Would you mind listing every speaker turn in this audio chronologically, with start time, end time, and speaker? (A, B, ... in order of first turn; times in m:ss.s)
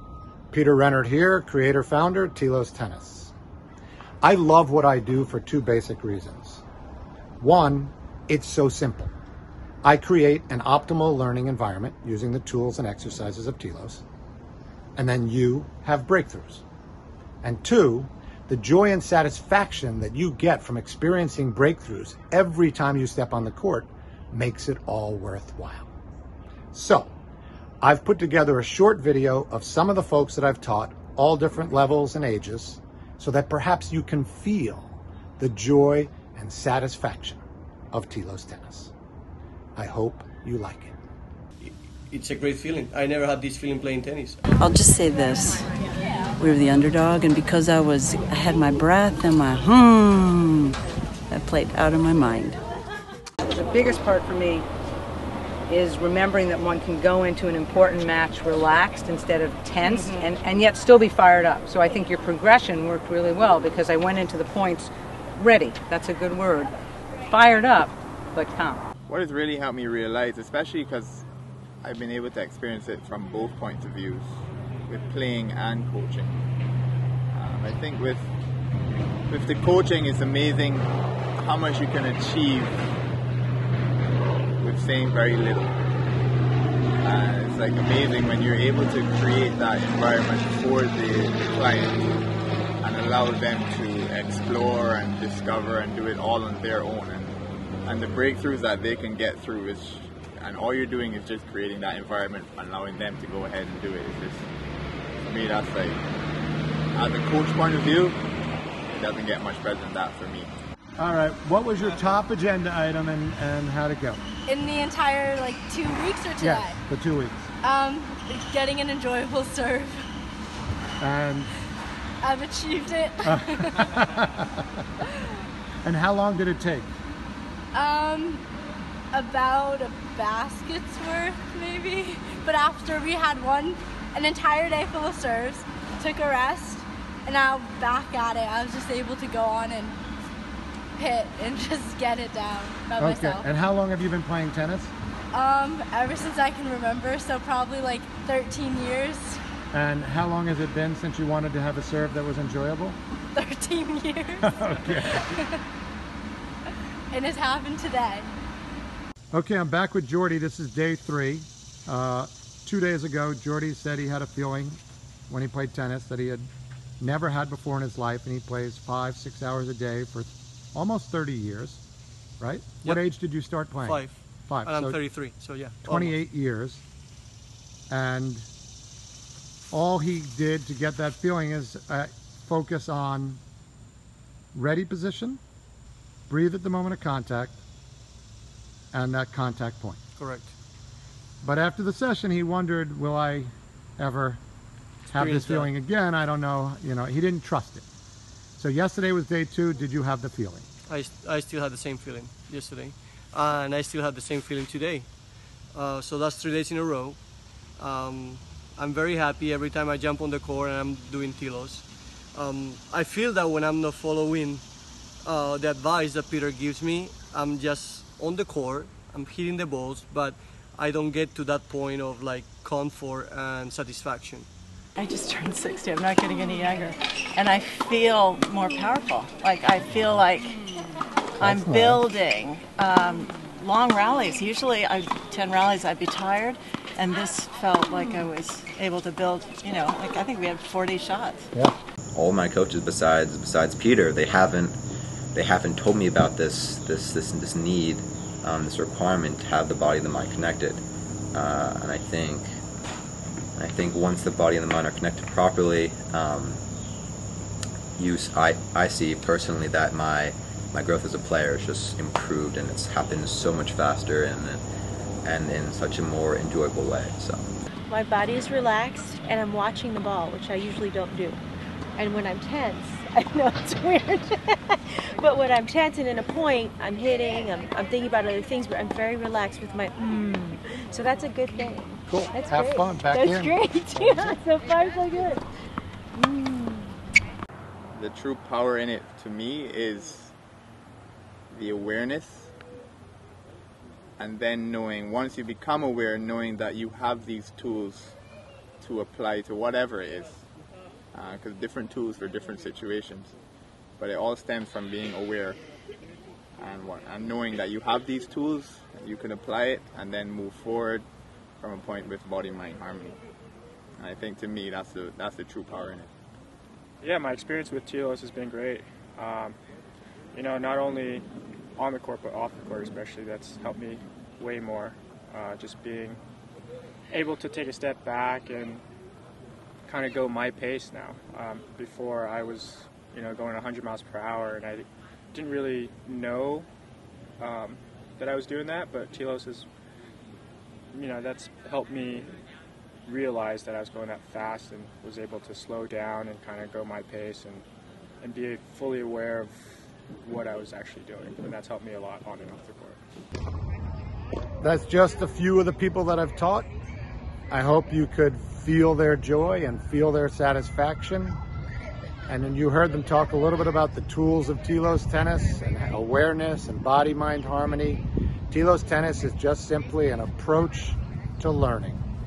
0:00.5-0:03.3 A
0:04.2-0:06.6 A
0:07.4-0:09.1 A
0:09.8-0:14.0 A
0:15.0-0:16.6 A
0:17.4-0:25.9 A
0:26.7-0:27.1 A
0:27.8-0:38.9 A
0:39.8-0:40.9 A
0:41.6-0:44.4 B
0:44.6-0:45.7 C
0:46.4-0:50.7 C
0:51.3-0:52.6 C
0:53.4-0:54.6 D
0:55.7-1:06.7 D
1:07.3-1:08.8 D
1:09.1-1:11.2 E
1:11.8-1:16.4 E
1:17.3-1:18.3 E
1:19.3-1:22.9 E
1:24.6-1:25.8 E
1:27.0-1:32.1 E
1:32.8-1:37.3 E
1:37.8-1:44.5 E
1:45.2-1:46.0 E
1:46.9-1:48.2 E
1:48.9-1:50.5 E
1:51.0-1:54.2 A
1:54.5-1:56.8 F
1:56.4-1:57.5 A
1:57.6-2:00.1 F
2:01.0-2:01.5 A
2:02.2-2:04.0 F
2:03.2-2:04.8 A
2:05.8-2:06.9 A
2:07.7-2:08.4 F
2:09.1-2:20.0 F
2:21.0-2:23.5 F
2:23.0-2:24.9 A
2:25.3-2:29.4 F
2:29.7-2:33.0 A
2:33.3-2:35.6 F
2:34.4-2:35.4 A
2:37.1-2:38.3 F
2:39.3-2:46.5 A
2:47.0-2:51.8 A
2:52.4-2:55.2 A
2:53.8-2:56.2 B
2:55.8-2:56.8 A
2:57.9-2:58.5 A
2:59.7-3:03.4 A
3:04.5-3:05.4 A
3:06.3-3:07.6 A
3:08.9-3:10.0 A
3:10.2-3:10.5 B
3:11.4-3:14.4 A
3:15.0-3:15.7 B
3:15.1-3:17.8 A
3:18.6-3:20.7 A
3:20.9-3:25.1 B
3:25.7-3:27.2 B
3:27.8-3:34.6 B
3:35.2-3:44.5 B
3:44.9-4:01.5 G
3:51.4-3:52.1 A
4:02.1-4:04.8 H
4:05.3-4:12.6 H
4:13.6-4:16.6 H
4:18.0-4:24.6 H
4:25.2-4:27.5 H
4:27.9-4:31.4 I
4:32.0-4:45.4 I
4:42.1-4:44.3 A
4:46.2-4:46.8 I
4:47.9-4:50.3 E
4:51.5-4:52.5 E
4:54.2-4:58.2 E
4:58.8-5:00.4 E
5:01.1-5:03.3 E
5:04.0-5:05.6 E
5:06.6-5:11.0 E
5:11.6-5:13.2 E
5:14.0-5:16.1 E
5:17.0-5:19.6 J
5:20.3-5:21.2 J
5:21.8-5:26.2 J
5:27.1-5:28.8 J
5:29.9-5:36.7 J
5:37.4-5:39.6 J
5:40.9-5:42.3 J
5:43.1-5:47.6 J
5:48.2-5:49.6 J
5:50.2-5:53.0 J
5:54.6-5:56.7 A
5:57.5-6:01.4 A
6:02.3-6:12.0 A